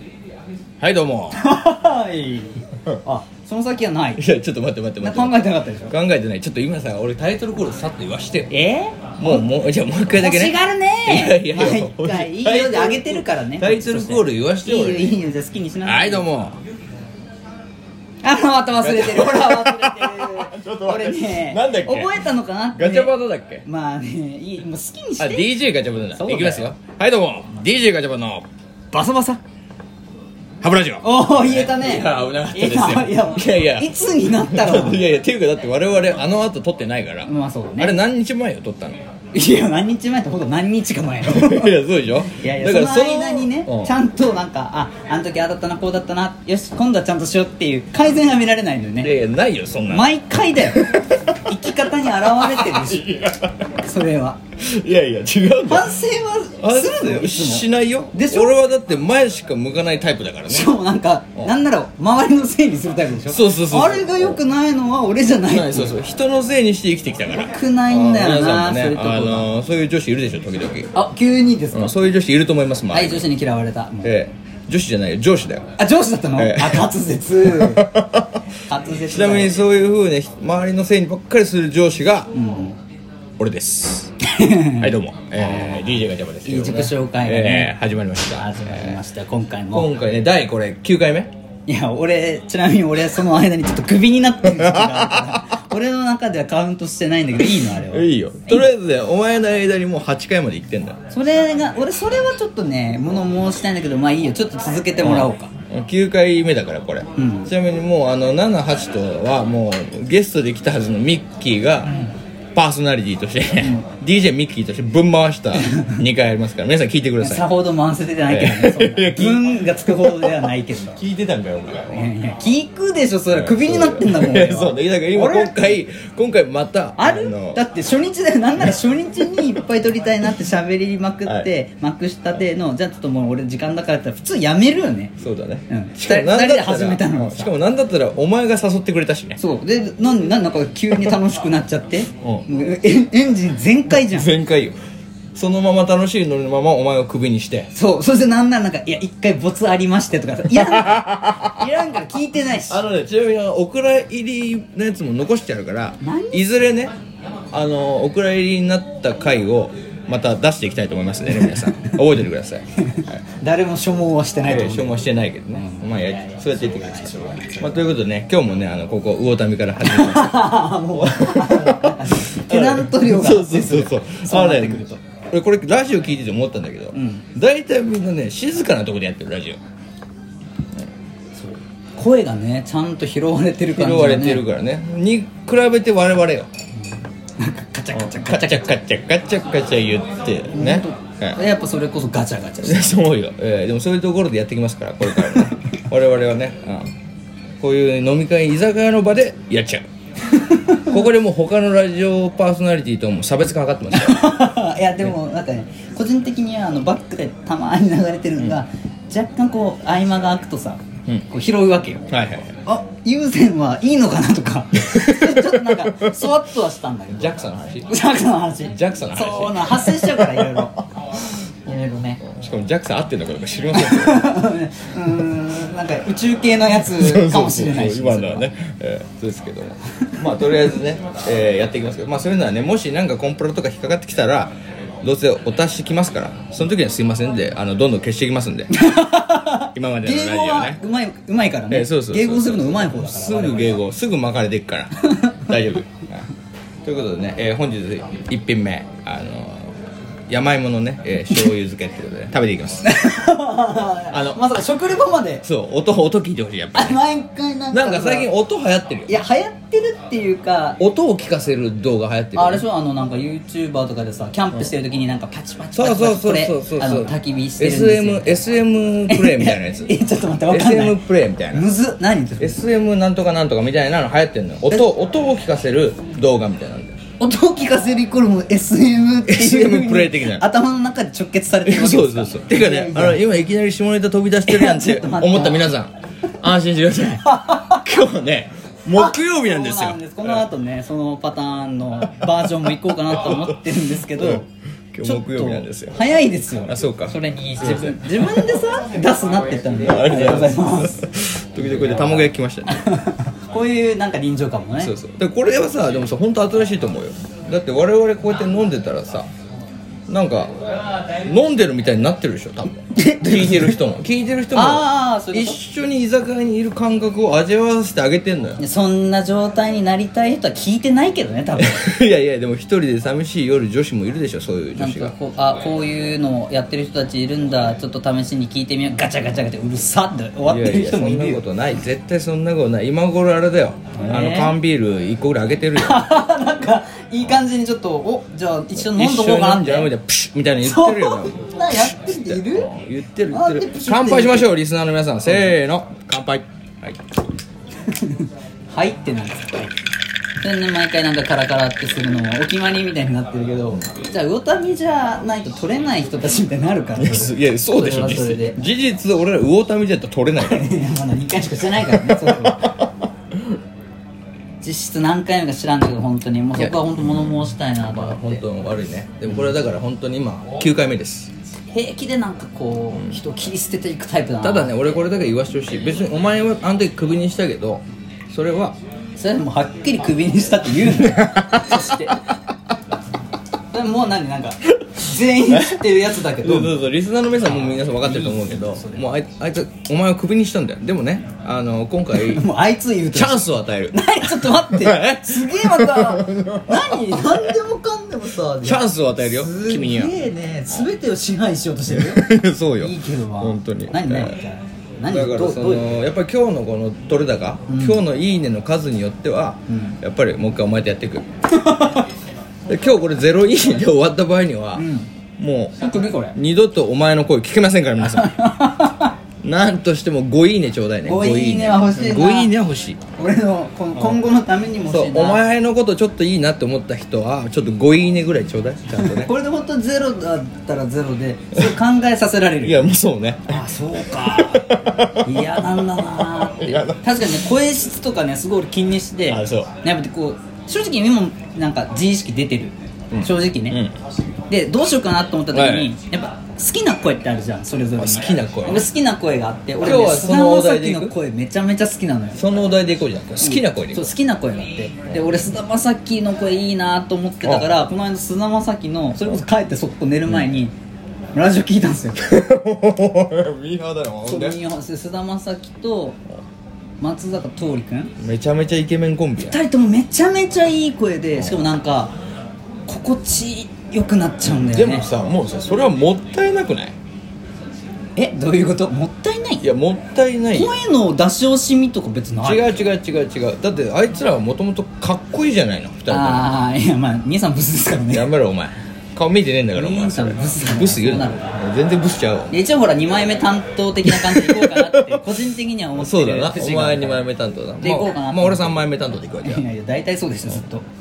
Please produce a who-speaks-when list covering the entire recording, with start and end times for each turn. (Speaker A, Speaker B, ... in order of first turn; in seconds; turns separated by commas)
Speaker A: 0.8-1.4, Speaker B: 1.3-4.2, Speaker A: 4.2-8.5, Speaker B: 5.0-5.9, Speaker B: 8.5-9.5, Speaker A: 9.2-15.2, Speaker B: 10.1-16.3, Speaker A: 15.8-16.6, Speaker B: 18.2-23.1, Speaker A: 18.8-23.6, Speaker B: 23.6-25.5, Speaker A: 25.2-28.5, Speaker B: 26.1-26.7, Speaker B: 28.9-29.4, Speaker A: 30.6-39.0, Speaker B: 31.0-35.0, Speaker B: 37.2-38.0, Speaker B: 39.3-41.7, Speaker A: 41.2-43.9, Speaker B: 42.3-49.1, Speaker A: 49.0-51.2, Speaker B: 49.9-53.2, Speaker A: 52.4-53.6, Speaker B: 53.8-54.4, Speaker A: 54.6-55.9, Speaker B: 55.7-58.5, Speaker A: 56.6-60.8, Speaker B: 60.5-65.9, Speaker A: 63.3-64.4, Speaker A: 65.5-70.9, Speaker B: 67.3-69.5, Speaker B: 71.0-72.0, Speaker A: 71.7-73.3, Speaker B: 72.9-74.1, Speaker A: 74.0-75.7, Speaker B: 75.8-77.9, Speaker A: 76.4-76.9, Speaker A: 77.4-78.4, Speaker B: 78.7-79.6, Speaker A: 79.1-82.3, Speaker B: 82.3-82.8, Speaker A: 83.4-84.1, Speaker B: 84.2-85.9, Speaker A: 84.8-89.0, Speaker B: 86.5-87.7, Speaker B: 88.3-89.9, Speaker A: 89.7-91.3, Speaker B: 91.7-98.7, Speaker A: 94.5-95.4, Speaker A: 97.6-101.0, Speaker B: 101.1-105.5, Speaker A: 105.0-112.0, Speaker B: 107.2-107.5, Speaker A: 112.5-117.5, Speaker B: 113.6-113.9, Speaker B: 115.6-116.0, Speaker B: 117.2-121.0, Speaker A: 118.3-122.1, Speaker B: 121.9-125.8, Speaker A: 123.3-127.6, Speaker B: 127.0-135.1, Speaker A: 135.2-139.4, Speaker B: 135.7-137.5, Speaker B: 139.4-144.3, Speaker A: 143.9-144.8, Speaker A: 145.3-147.7, Speaker B: 147.7-152.8, Speaker A: 150.7-151.5, Speaker A: 152.7-156.9, Speaker B: 156.0-156.5, Speaker A: 157.5-162.6, Speaker B: 161.4-161.9, Speaker B: 162.8-167.8, Speaker A: 164.4-179.6, Speaker B: 169.8-175.0, Speaker B: 176.9-177.3, Speaker B: 181.4-184.4, Speaker A: 183.7-186.5, Speaker B: 187.4-188.7, Speaker A: 187.9-191.4, Speaker B: 190.5-193.0, Speaker A: 192.6-196.9, Speaker B: 195.1-195.5, Speaker A: 197.6-199.8, Speaker B: 200.3-201.0, Speaker A: 200.8-204.3, Speaker B: 203.9-212.1, Speaker A: 212.1-212.6, Speaker B: 212.7-217.4, Speaker A: 214.8-216.2, Speaker A: 217.1-217.9, Speaker B: 217.9-220.8, Speaker A: 218.7-220.2, Speaker B: 221.7-222.2, Speaker A: 222.3-224.3, Speaker B: 223.7-228.5, Speaker A: 226.8-238.7, Speaker B: 238.7-243.8, Speaker A: 239.7-240.8, Speaker A: 241.7-246.3, Speaker B: 245.1-245.3, Speaker A: 246.8-249.7, Speaker A: 250.3-252.9, Speaker B: 252.8-255.4, Speaker A: 254.1-254.4, Speaker A: 255.4-257.0, Speaker B: 256.8-258.3, Speaker A: 257.7-259.1, Speaker B: 259.1-260.8, Speaker A: 260.8-262.6, Speaker B: 262.4-268.5, Speaker A: 265.7-269.9, Speaker B: 269.1-272.6, Speaker A: 270.5-271.7, Speaker A: 272.4-277.0, Speaker B: 277.2-283.2, Speaker A: 279.3-280.5, Speaker A: 281.6-290.4, Speaker B: 284.4-285.7, Speaker B: 287.2-287.9, Speaker B: 288.9-294.5, Speaker A: 293.1-293.6, Speaker A: 294.9-296.0, Speaker B: 295.0-301.1, Speaker A: 296.6-298.4, Speaker A: 299.8-302.8, Speaker B: 302.7-304.9, Speaker A: 304.8-309.3, Speaker A: 310.1-310.5, Speaker A: 311.1-318.6, Speaker B: 312.9-313.8, Speaker B: 314.6-315.6, Speaker B: 318.6-321.8, Speaker A: 321.6-325.1, Speaker B: 324.8-331.4, Speaker A: 330.4-336.0, Speaker B: 334.0-334.6, Speaker B: 335.8-339.9, Speaker A: 338.7-347.0, Speaker B: 340.6-342.7, Speaker B: 343.3-344.5, Speaker B: 347.9-349.7, Speaker B: 350.4-358.6, Speaker A: 357.0-360.7, Speaker B: 360.4-362.8, Speaker A: 361.8-363.6, Speaker B: 364.6-368.4, Speaker A: 366.6-371.3, Speaker B: 371.7-375.0, Speaker A: 372.9-373.2, Speaker A: 374.4-378.8, Speaker B: 379.2-382.3, Speaker A: 381.0-382.0, Speaker B: 383.7-386.8, Speaker A: 385.5-385.8, Speaker A: 386.4-392.4, Speaker B: 387.6-389.1, Speaker B: 392.2-402.3, Speaker A: 393.1-397.3, Speaker A: 398.6-400.1, Speaker A: 401.9-404.3, Speaker B: 402.8-406.0, Speaker A: 405.1-411.2, Speaker B: 407.7-408.0, Speaker B: 409.7-410.0, Speaker B: 411.5-412.1, Speaker A: 412.7-414.9, Speaker B: 414.8-415.1, Speaker A: 415.4-415.8, Speaker B: 415.8-416.4, Speaker A: 416.3-418.4, Speaker B: 418.1-419.1, Speaker A: 419.4-423.0, Speaker B: 421.0-422.5, Speaker B: 423.2-425.4, Speaker A: 424.0-424.2, Speaker A: 424.8-429.3, Speaker B: 428.9-432.9, Speaker A: 432.6-437.5, Speaker B: 433.5-443.8, Speaker A: 439.3-439.7, Speaker A: 443.1-443.9, Speaker B: 444.5-452.4, Speaker A: 445.5-445.9, Speaker A: 448.0-448.9, Speaker A: 449.8-451.1, Speaker A: 452.4-454.1, Speaker B: 453.4-460.7, Speaker A: 457.4-457.7, Speaker B: 461.3-462.3, Speaker A: 462.2-464.6, Speaker B: 464.2-466.2, Speaker B: 467.0-468.1, Speaker A: 468.2-469.6, Speaker B: 469.4-472.1, Speaker A: 471.4-471.7, Speaker B: 472.9-475.1, Speaker A: 474.4-477.0, Speaker B: 478.2-479.7, Speaker A: 479.6-480.8, Speaker B: 480.5-482.8, Speaker A: 482.4-486.5, Speaker B: 486.1-488.3, Speaker A: 488.1-492.6, Speaker B: 489.7-491.6, Speaker B: 492.5-497.2, Speaker A: 494.1-495.3, Speaker A: 496.0-499.6, Speaker B: 497.8-498.9, Speaker B: 499.4-500.9